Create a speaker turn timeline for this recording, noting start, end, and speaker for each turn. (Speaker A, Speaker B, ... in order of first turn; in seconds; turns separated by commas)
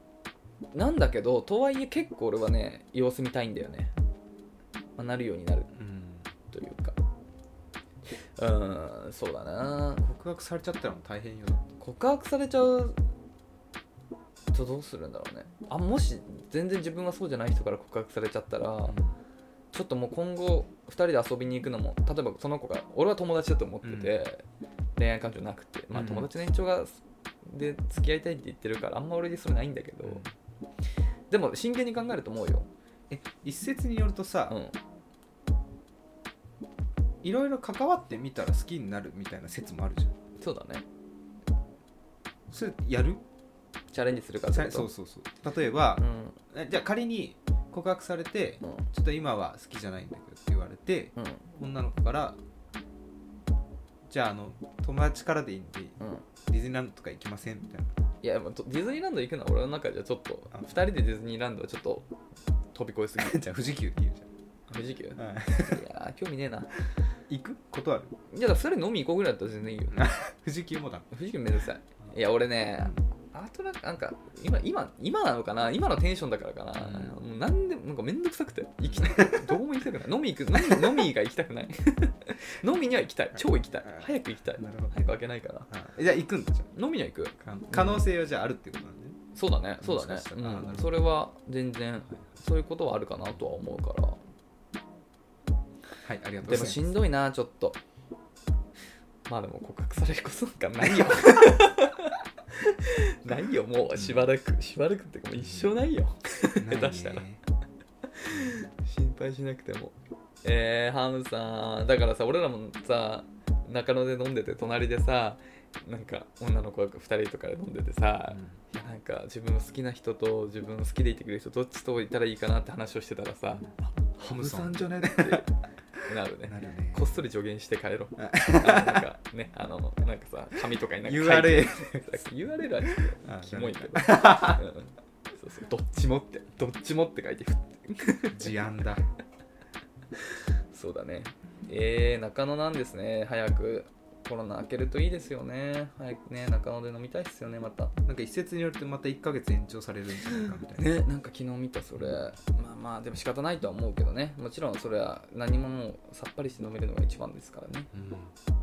Speaker A: 0.7-3.9, Speaker A: 5.0-5.7, Speaker B: 5.7-6.3, Speaker A: 6.5-7.0, Speaker A: 8.2-10.0, Speaker B: 10.0-11.7, Speaker A: 11.8-13.0, Speaker A: 14.5-18.9, Speaker B: 18.9-19.2, Speaker A: 19.7-24.4, Speaker B: 23.8-24.1, Speaker A: 24.9-30.2, Speaker B: 25.9-26.3, Speaker B: 30.0-30.3, Speaker A: 31.3-32.7, Speaker B: 33.1-34.6, Speaker A: 34.5-34.8, Speaker B: 37.2-40.1, Speaker A: 40.4-40.9, Speaker B: 42.5-43.2, Speaker A: 43.9-44.9, Speaker B: 44.5-52.4, Speaker A: 46.0-46.4, Speaker A: 51.1-51.4, Speaker B: 54.1-57.9, Speaker A: 58.2-62.1, Speaker A: 62.7-63.4, Speaker B: 63.2-64.3, Speaker A: 64.7-66.7, Speaker B: 65.2-65.8, Speaker B: 67.3-68.1, Speaker A: 68.3-70.0, Speaker B: 69.9-71.1, Speaker A: 71.1-85.7, Speaker B: 72.8-73.0, Speaker B: 76.8-77.2, Speaker B: 78.8-79.5, Speaker B: 83.8-85.1, Speaker B: 85.7-86.7, Speaker A: 86.7-88.0, Speaker B: 87.4-89.2, Speaker A: 89.3-94.2, Speaker B: 89.8-90.9, Speaker B: 96.0-96.9, Speaker A: 96.4-97.8, Speaker A: 99.3-107.2, Speaker B: 103.9-104.3, Speaker B: 105.3-105.7, Speaker B: 106.5-107.4, Speaker A: 108.1-125.5, Speaker B: 118.3-118.6, Speaker B: 124.2-125.5, Speaker A: 126.1-138.5, Speaker B: 126.5-127.1, Speaker B: 128.2-129.0, Speaker B: 131.0-132.1, Speaker B: 133.2-134.6, Speaker B: 138.3-139.0, Speaker A: 140.2-147.9, Speaker B: 148.1-150.9, Speaker A: 150.5-157.9, Speaker B: 157.9-158.3